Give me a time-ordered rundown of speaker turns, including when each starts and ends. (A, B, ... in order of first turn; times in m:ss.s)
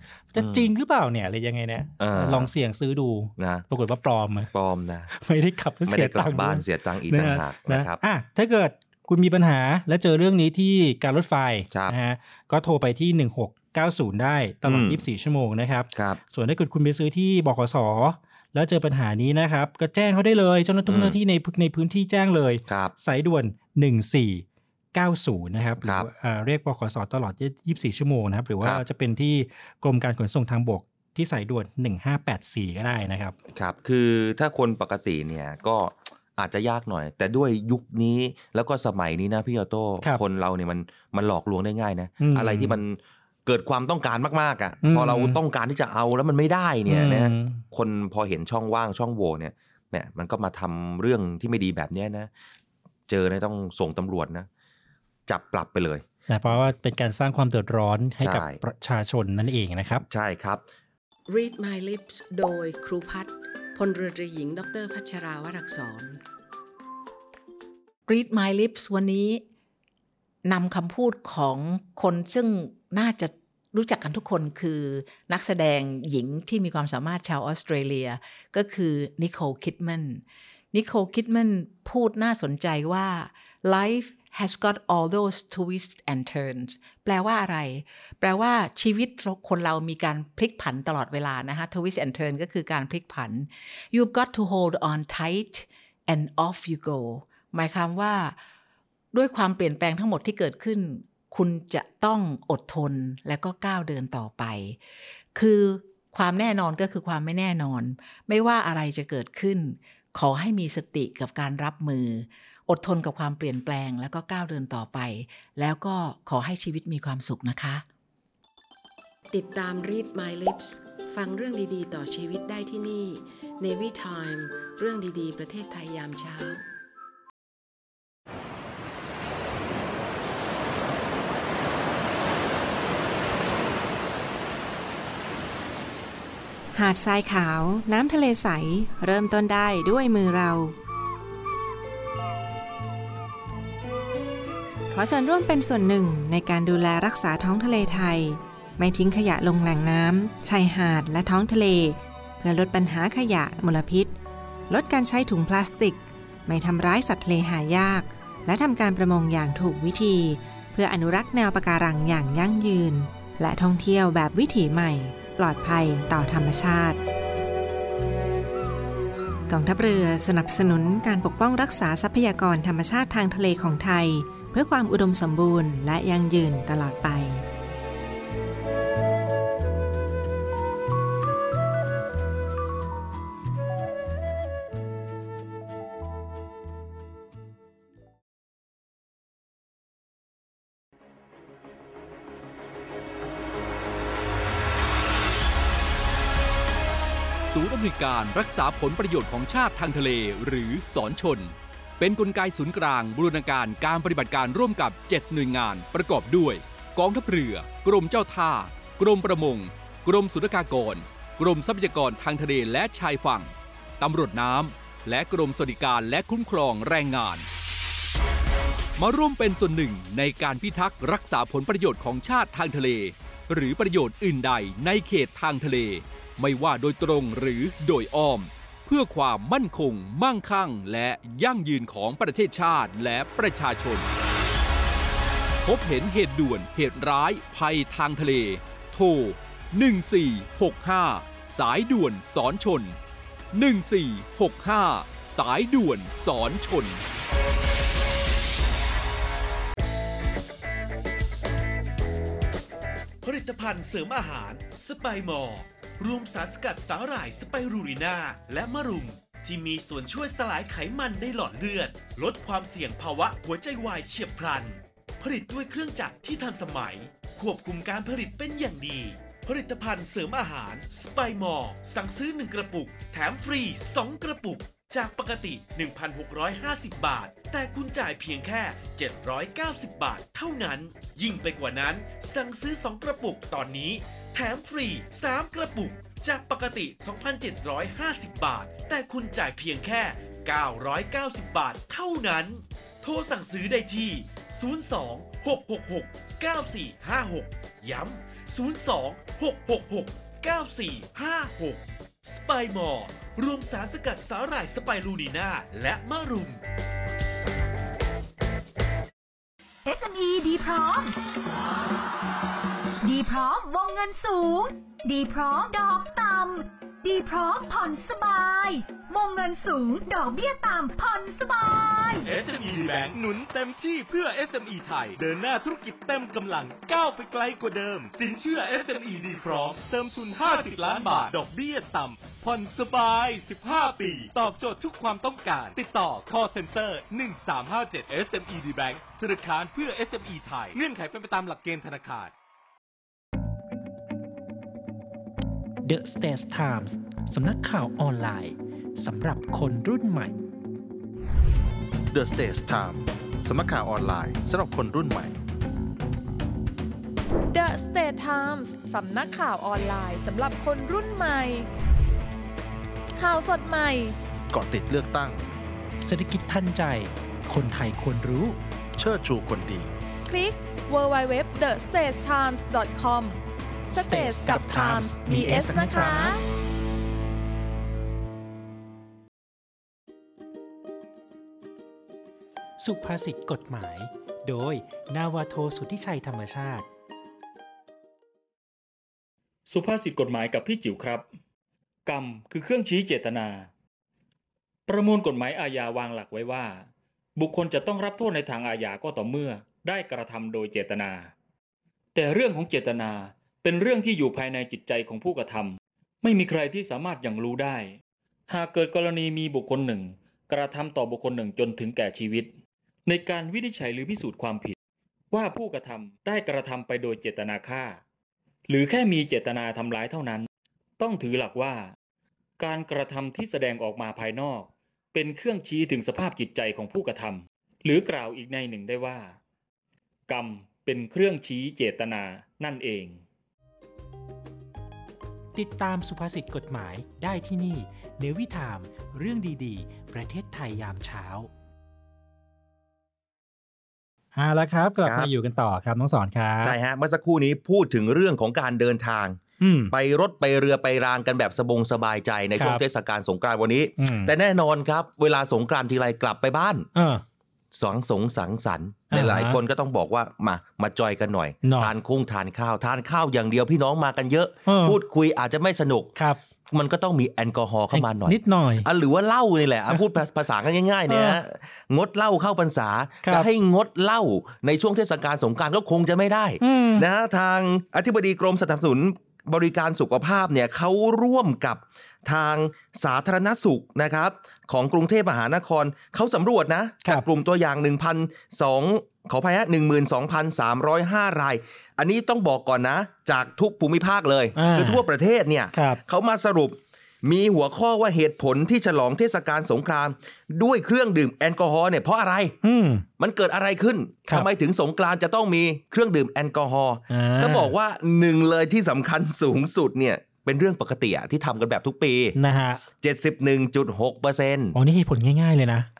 0:00.3-0:04.5 A
0:00.4-0:00.7 B
0:02.0-0:02.5 B
0:03.4-0:03.6 B
0:04.5-0:05.1 B
0:05.1-0:33.4 A
0:05.8-0:08.0 B
0:14.6-0:15.0 B
0:15.9-0:16.2 B
0:20.9-0:21.2 B
0:22.7-0:22.9 B
0:25.8-0:26.1 B
0:33.5-0:52.3 B
0:42.2-0:42.8 A
0:44.8-0:45.4 A
0:46.9-0:47.6 A
0:53.1-0:54.5 B
0:55.3-0:56.0 B
0:56.3-1:00.0 A
0:58.2-0:58.6 B
1:00.0-1:00.6 B
1:01.3-1:06.2 C
1:08.1-1:09.4 D
1:10.4-1:20.2 D
1:20.7-1:38.3 D
1:39.1-1:44.8 D
1:45.3-1:57.8 D
1:59.3-2:06.6 C
2:16.7-2:20.7 E
2:24.9-2:34.2 E
2:34.7-2:47.0 E
2:49.5-2:57.4 E
3:17.4-3:37.5 F
3:39.0-3:54.1 F
3:55.6-4:03.0 F
4:03.5-4:07.0 F
4:13.2-5:06.6 G
5:09.8-5:11.1 H
5:13.0-5:22.2 H
5:22.2-5:42.3 I
5:45.8-5:50.3 A
5:52.1-5:55.4 J
5:57.5-6:01.7 K
6:03.1-6:04.2 K
6:04.5-6:05.4 J
6:06.0-6:08.6 A
6:09.0-6:09.9 J
6:10.2-6:13.4 K
6:13.9-6:16.4 A
6:13.9-6:16.4 K
6:22.8-6:26.8 A
6:29.7-6:31.2 L
6:32.0-6:33.7 L
6:34.9-6:41.3 L
6:42.1-6:52.5 L
6:53.0-6:54.8 L
6:55.3-6:58.0 L
6:58.7-7:00.5 L
7:01.0-7:01.9 L
7:02.6-7:09.4 L
7:10.3-7:13.2 L
7:15.5-7:21.5 A
7:24.4-7:26.8 A
7:25.0-7:25.3 B
7:26.6-7:29.4 B
7:29.6-7:29.9 A
7:29.9-7:36.9 B
7:32.6-7:32.8 A
7:34.0-7:34.3 A
7:36.9-7:37.2 A
7:37.7-7:46.1 B
7:39.1-7:39.6 A
7:41.6-7:41.9 A
7:44.6-7:45.0 A
7:46.7-8:22.6 B
7:47.9-7:48.9 A
7:51.1-7:51.4 A
7:53.2-7:53.5 A
7:56.6-7:57.0 A
8:14.6-8:15.0 A
8:15.7-8:16.0 A
8:22.6-8:23.0 A
8:23.2-8:32.4 B
8:27.1-8:27.7 A
8:32.4-8:32.8 A
8:33.0-8:34.8 B
8:34.7-8:35.9 A